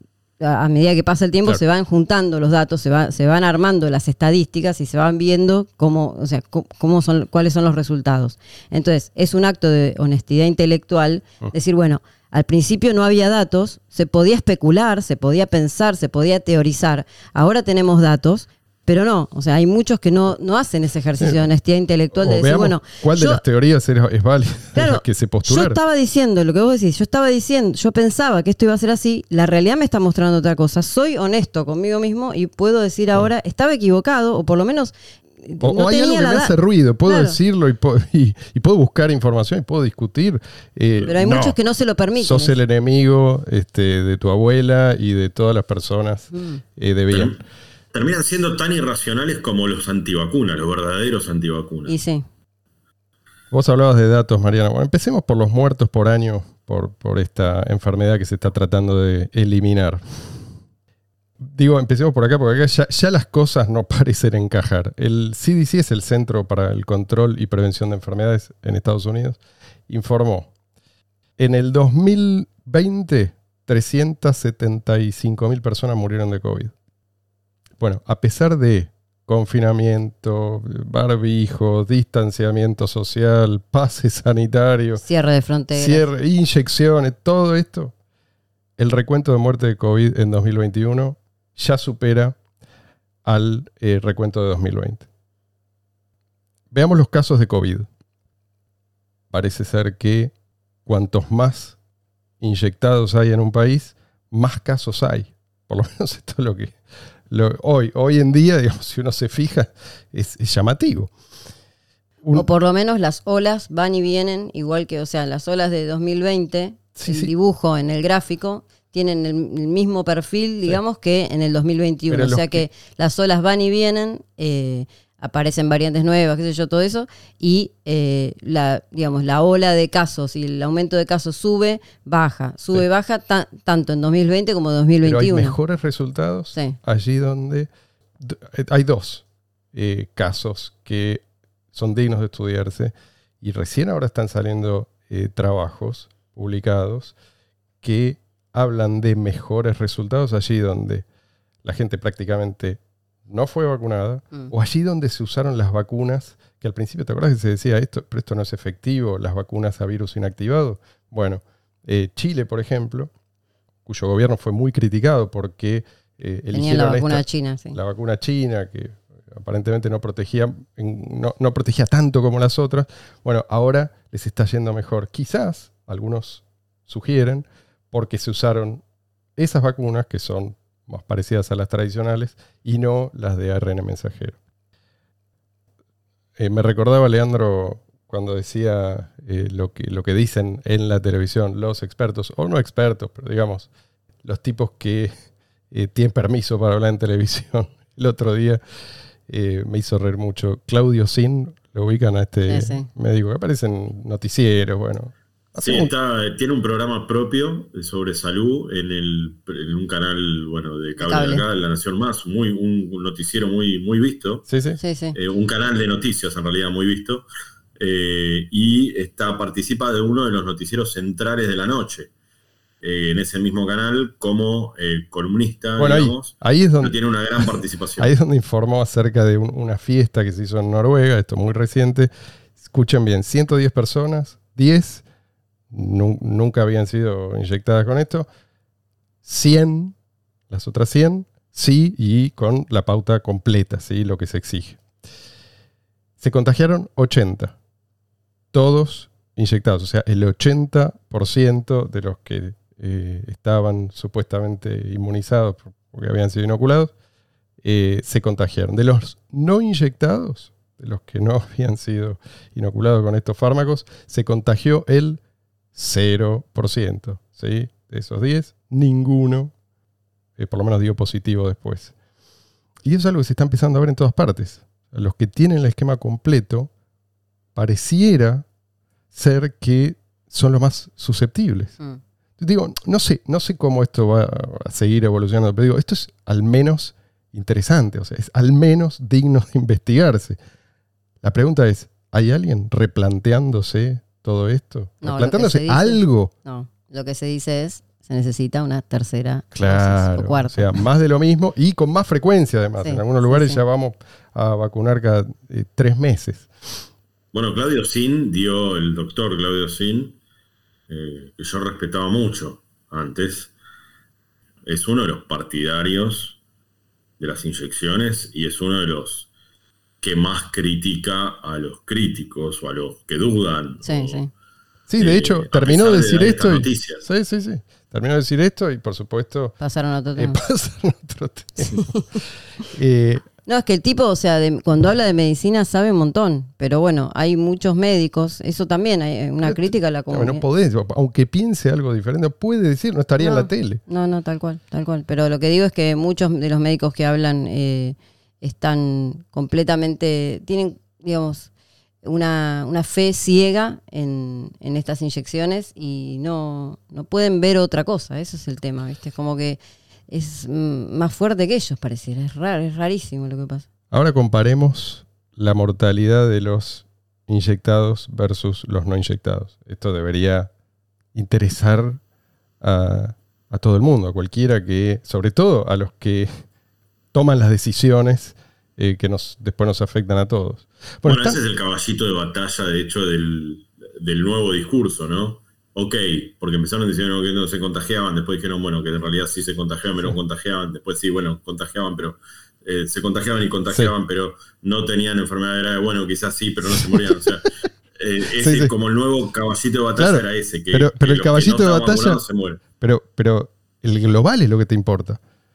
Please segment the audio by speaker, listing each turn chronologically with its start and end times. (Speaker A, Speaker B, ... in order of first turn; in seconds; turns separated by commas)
Speaker A: 0.4-23.4, Speaker B: 21.2-21.5, Speaker B: 22.1-25.8, Speaker A: 24.8-36.5, Speaker B: 35.6-41.6, Speaker A: 37.1-37.4, Speaker A: 41.1-42.5, Speaker B: 42.2-47.4, Speaker A: 46.3-46.6, Speaker C: 47.1-47.4, Speaker C: 47.9-52.0, Speaker A: 51.9-52.2, Speaker B: 53.5-60.5, Speaker B: 61.4-70.5, Speaker B: 71.4-76.7, Speaker B: 77.8-85.0, Speaker A: 85.0-86.1, Speaker B: 85.7-87.9, Speaker B: 88.8-92.4, Speaker B: 93.2-95.1, Speaker B: 96.7-97.9, Speaker B: 99.3-100.3, Speaker B: 100.9-101.8, Speaker B: 102.4-106.8, Speaker B: 107.3-111.1, Speaker A: 112.3-135.6, Speaker B: 117.0-117.3, Speaker B: 122.1-122.7, Speaker B: 135.0-147.2, Speaker B: 147.8-151.1, Speaker B: 151.6-163.1, Speaker B: 163.9-178.8, Speaker A: 166.5-167.8, Speaker B: 179.4-184.4, Speaker B: 186.4-193.7, Speaker B: 194.2-195.1, Speaker B: 195.7-198.6, Speaker B: 199.3-205.9, Speaker A: 202.5-202.9, Speaker C: 205.6-214.5, Speaker A: 211.0-211.4, Speaker B: 214.5-214.8, Speaker A: 214.8-215.2, Speaker C: 215.2-217.3, Speaker C: 217.8-222.1, Speaker C: 222.8-228.1, Speaker B: 225.8-227.4, Speaker B: 228.0-235.0, Speaker B: 235.7-238.3, Speaker B: 239.2-239.9, Speaker B: 240.5-244.8, Speaker B: 246.2-247.6, Speaker B: 248.5-256.9, Speaker B: 257.6-265.2, Speaker B: 265.7-269.5, Speaker B: 270.4-271.9, Speaker B: 272.9-276.7, Speaker B: 277.6-278.5, Speaker B: 279.1-281.8, Speaker B: 282.4-290.4, Speaker B: 291.2-296.3, Speaker A: 295.0-300.8, Speaker B: 299.5-306.5, Speaker A: 302.8-303.6, Speaker C: 307.3-310.2, Speaker C: 310.9-313.5, Speaker C: 314.6-316.4, Speaker C: 317.2-319.3, Speaker C: 320.0-324.2, Speaker A: 323.8-324.3, Speaker B: 324.9-329.6, Speaker C: 325.0-327.1, Speaker A: 329.6-330.4, Speaker B: 330.2-333.2, Speaker A: 331.6-332.0, Speaker A: 333.5-340.4, Speaker B: 339.4-343.8, Speaker A: 343.2-351.5, Speaker A: 352.0-359.6, Speaker A: 360.1-363.7, Speaker B: 363.9-370.5, Speaker B: 371.1-372.0, Speaker B: 372.6-376.4, Speaker B: 377.1-381.4, Speaker C: 381.1-402.6, Speaker B: 396.7-397.3, Speaker B: 398.4-398.7, Speaker B: 400.0-402.2, Speaker B: 402.8-405.2